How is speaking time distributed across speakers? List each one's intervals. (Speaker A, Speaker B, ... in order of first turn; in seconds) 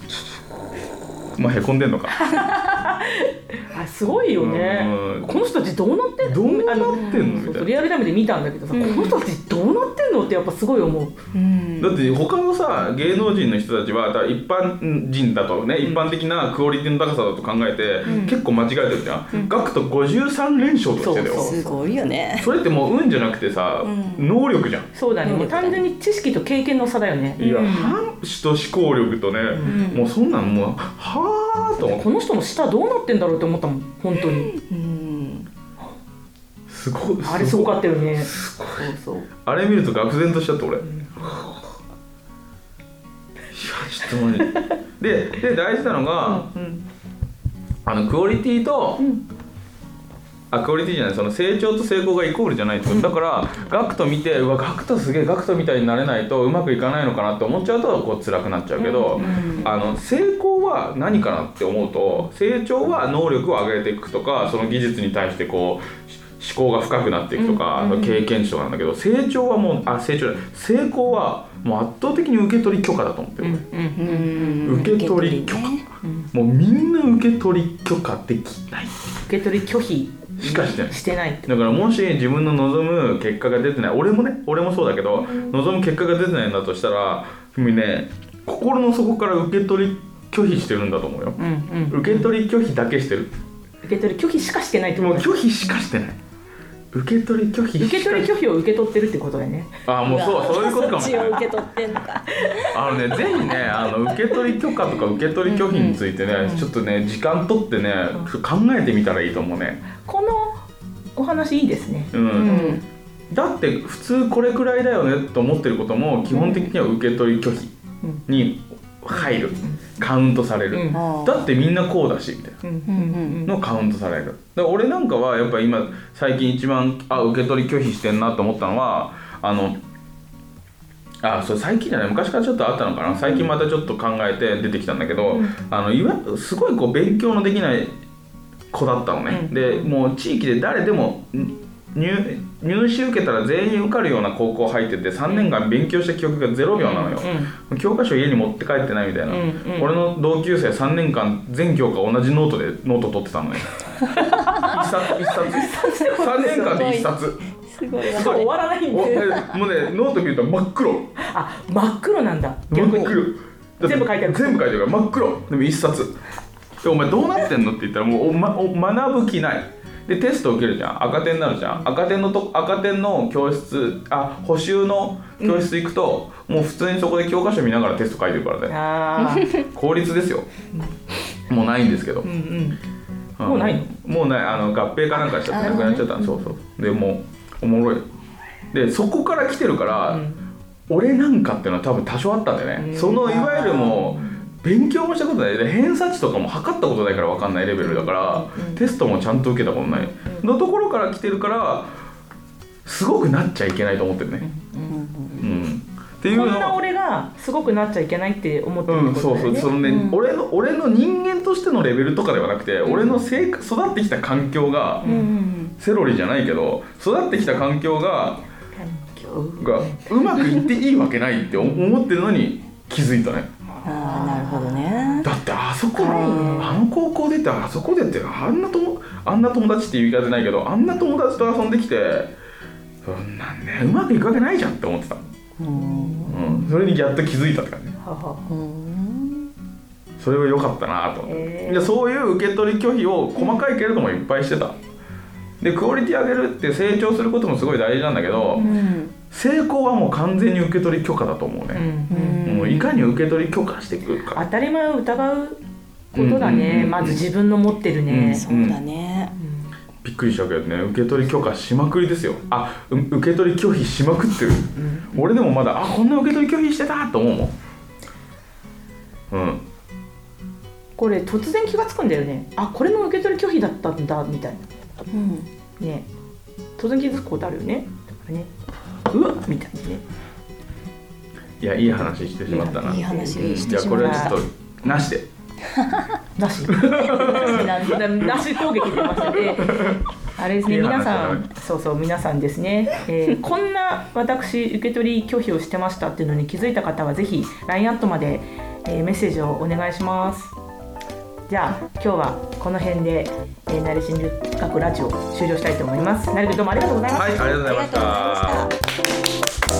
Speaker A: 1.4-2.3, 4.4-5.3, 6.2-7.7, 11.8-21.5, 22.4-24.9, 27.4-32.0, 36.7-41.5, 43.5-46.5, 47.9-49.0, 50.5-73.6, 74.6-75.8, 76.3-79.0, 80.4-93.3, 95.0-96.2, 96.9-98.3, 99.9-101.5, 102.7-109.8, 112.1-112.8, 113.3-117.7, 118.3-122.6, 123.4-129.8, 131.2-138.0, 138.7-153.8, 154.5-157.4, 158.1-161.1, 162.7-166.2, 166.8-178.8, 179.5-180.5, 181.5-182.3, 183.4-188.1, 188.7-190.2, 190.9-202.0, 202.8-204.4, 205.4-206.8, 208.9-215.1, 215.8-218.4, 219.6-223.5, 225.2-232.3, 233.0-235.2, 236.3-238.0, 240.2-244.8, 245.6-248.6, 249.3-251.8, 252.4-254.4, 256.1-257.2, 258.1-258.8, 260.0-267.5, 269.3-269.6, 281.6-285.3, 286.7-288.2, 289.5-290.0, 290.6-291.5, 307.1-308.7
Speaker B: 2.1-11.2, 15.8-16.1, 18.1-18.3, 21.0-21.8, 24.9-28.0, 29.5-29.8, 31.8-34.5, 37.2-39.3, 40.8-41.4, 46.2-46.8, 49.0-49.2, 58.8-59.7, 67.4-68.1, 73.4-74.9, 79.3-81.5, 85.2-85.5, 91.4-92.3, 93.8-95.4, 97.8-99.7, 100.8-101.4, 102.4-102.7, 106.4-106.7, 110.0-110.6, 111.2-112.8, 116.3-116.7, 119.1-119.8, 120.7-121.0, 122.6-123.5, 139.3-139.9, 145.3-145.5, 146.8-147.5, 149.3-149.9, 154.1-157.0, 158.0-159.6, 161.2-163.2, 163.8-164.7, 175.4-175.7, 178.7-179.6, 182.2-182.8, 183.4-183.9, 185.3-186.1, 190.1-190.4, 192.8-194.5, 197.8-198.8, 199.9-200.5, 204.4-205.0, 206.3-209.8, 215.0-215.3, 218.8-220.1, 221.6-221.9, 223.7-225.2, 226.0-226.8, 235.7-236.7, 238.0-238.5, 241.2-241.9, 251.7-252.4, 254.3-255.6, 256.1-258.4, 259.4-259.7, 264.8-265.3, 271.0-274.7, 275.8-276.1, 276.8-278.5, 279.1-280.0, 281.9-285.1, 286.4-300.5, 301.5-307.3
Speaker C: 6.9-7.5, 8.7-9.2, 11.3-12.1, 18.1-18.4, 21.3-22.5, 23.8-24.3, 25.2-25.8, 29.6-30.1, 34.5-35.5, 59.1-59.7, 67.8-68.2, 74.0-75.8, 100.0-103.9, 105.3-106.0, 112.3-112.8, 120.9-121.5, 122.9-123.5, 155.7-158.5, 162.8-163.1, 185.5-186.3, 204.9-205.5, 209.8-210.2, 215.0-215.8, 223.8-225.3, 226.0-226.8, 235.6-236.3, 238.5-239.5, 248.6-249.2, 252.1-253.0, 258.3-259.4, 275.1-275.5, 282.5-284.4, 285.7-286.1, 287.1-288.1, 288.8-289.4, 307.2-308.7